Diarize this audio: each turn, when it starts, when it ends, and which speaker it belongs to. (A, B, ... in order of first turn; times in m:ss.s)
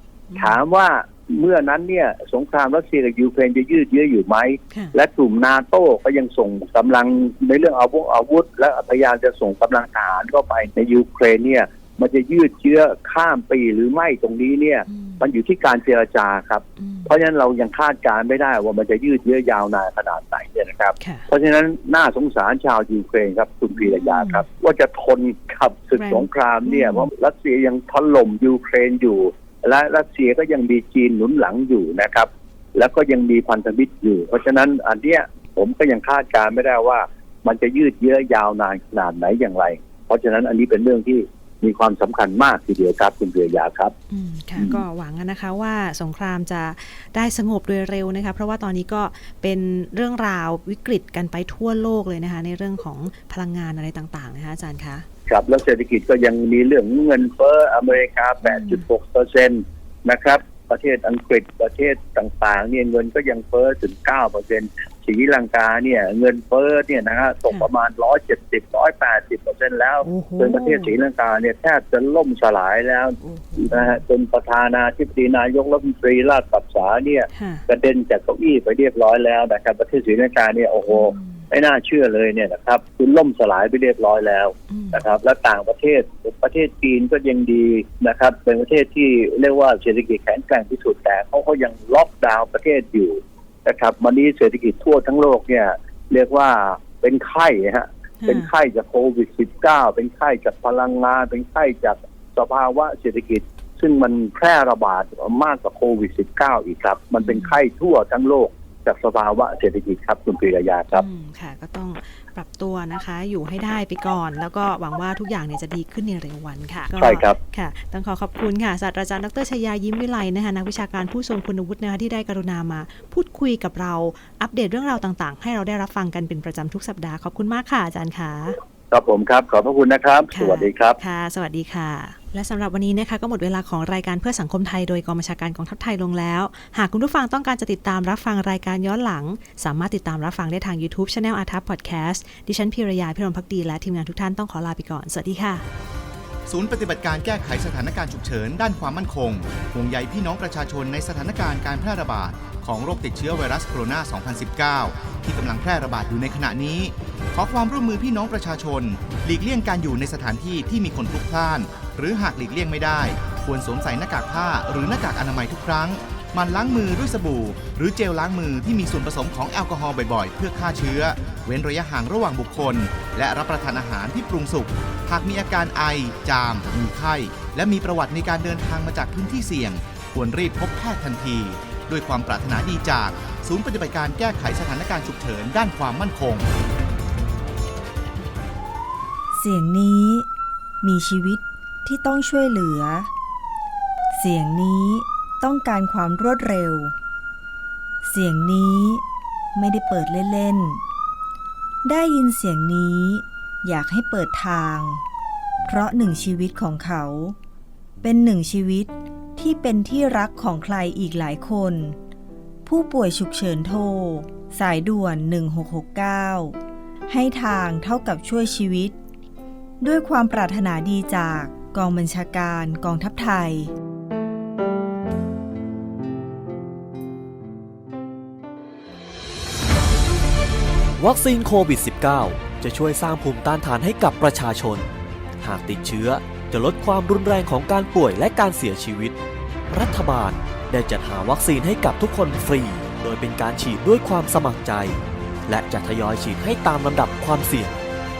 0:00.3-0:00.6 A
0:00.4-0:43.9 B
0:14.9-0:15.3 A
0:16.8-0:17.1 A
0:21.0-0:21.3 A
0:23.8-0:24.4 A
0:26.0-0:27.1 A
0:44.1-0:55.0 A
0:55.3-1:51.0 B
0:58.4-0:58.8 A
1:10.0-1:10.9 A
1:13.2-1:14.0 A
1:17.3-1:17.6 A
1:20.9-1:21.5 A
1:24.7-1:25.0 A
1:38.2-1:38.5 A
1:47.2-1:47.5 A
1:50.9-2:08.6 A
1:57.0-1:57.4 B
2:08.9-2:11.0 B
2:10.3-2:25.6 A
2:26.5-3:06.4 C
3:09.3-3:10.2 D
3:10.8-3:13.1 D
3:14.2-3:16.9 D
3:18.0-3:19.0 D
3:19.5-3:20.8 D
3:21.8-3:25.0 D
3:25.6-3:27.4 D
3:28.0-3:32.0 D
3:32.6-3:39.0 D
3:39.8-3:43.7 D
3:51.0-3:54.9 E
3:55.4-3:59.2 E
3:59.7-4:07.8 E